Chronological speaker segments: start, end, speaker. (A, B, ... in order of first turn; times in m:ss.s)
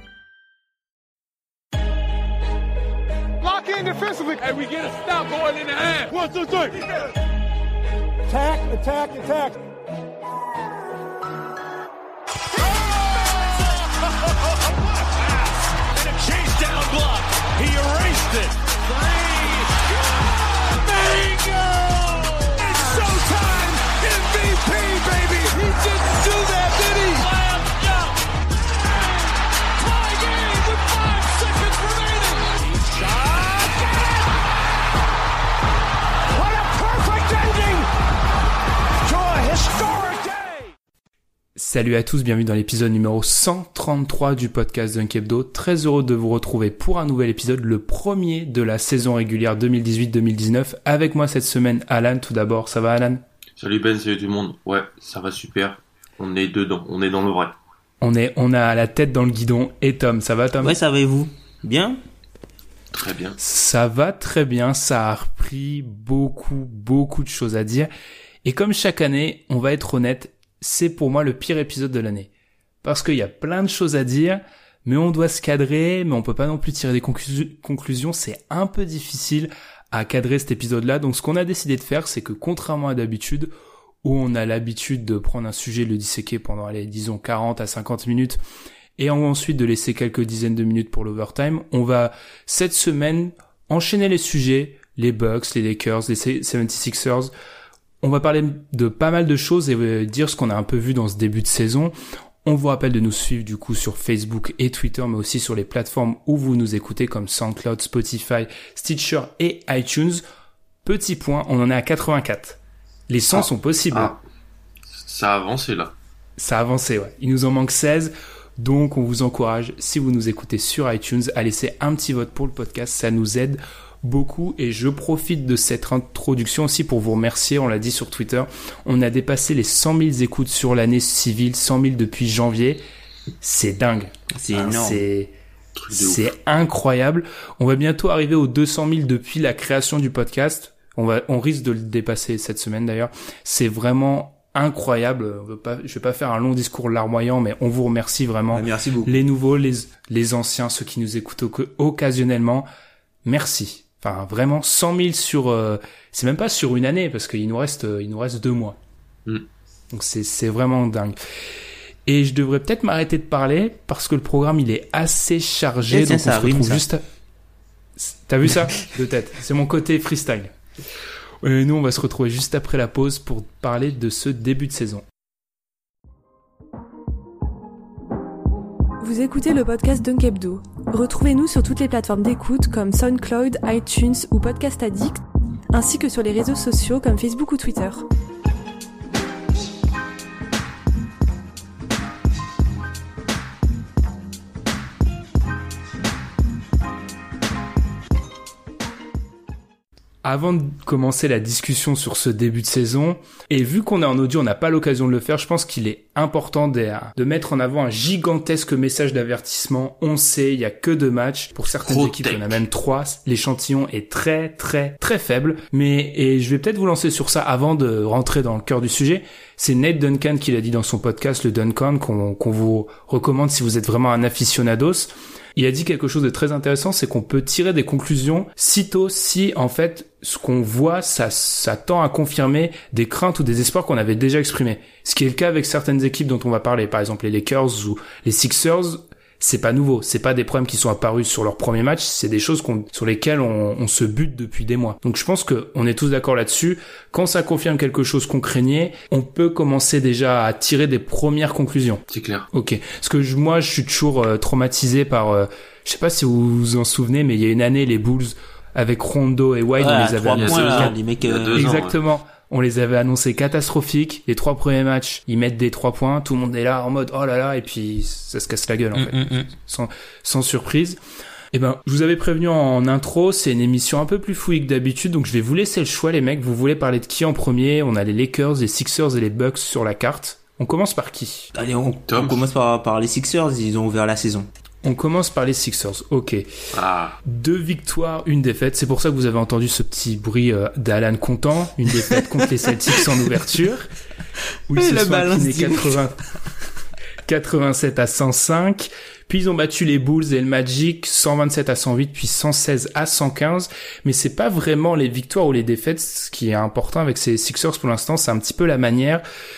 0:03.4-0:07.1 A
0:08.3-0:09.6 A
0:12.6-0:13.6 A
0:15.8-0:27.9 A
0:29.8-0:34.1 A
0:36.3-0:37.9 A
0:39.0-0:40.6 A
0:41.6-0:53.2 B
0:53.6-0:57.5 C
0:58.0-1:00.8 B
1:00.6-1:02.0 D
1:02.9-1:03.4 C
1:03.4-1:07.9 B
1:08.4-1:12.3 B
1:12.8-1:23.5 B
1:24.0-1:28.4 B
1:29.0-1:37.3 B
1:38.0-1:41.9 B
1:42.4-1:50.2 B
1:50.8-1:52.6 B
1:53.1-1:54.1 B
1:53.3-1:54.2 C
1:54.9-1:55.9 C
1:56.4-2:12.8 B
2:13.4-2:15.3 B
2:14.3-2:15.0 D
2:15.8-2:16.3 C
2:15.9-2:32.7 B
2:28.5-2:29.2 D
2:33.2-2:38.8 B
2:39.9-2:41.2 B
2:42.1-2:47.0 B
2:45.9-2:46.8 D
2:48.0-2:50.5 B
2:51.4-2:55.0 B
2:59.0-3:05.2 E
3:05.7-3:08.1 E
3:20.2-4:20.9 B
3:31.9-3:32.6 C
4:12.1-4:12.5 C
4:19.8-4:21.7 D
4:20.4-4:22.0 C
4:21.6-4:31.0 B
4:28.9-4:29.5 D
4:31.5-4:41.5 B
4:41.5-4:44.5 D
4:42.1-4:42.4 C
4:44.8-4:46.4 B
4:46.7-4:47.2 C
4:47.2-4:53.9 B
4:54.7-4:56.2 B
4:54.7-4:56.1 D
4:57.2-5:09.2 B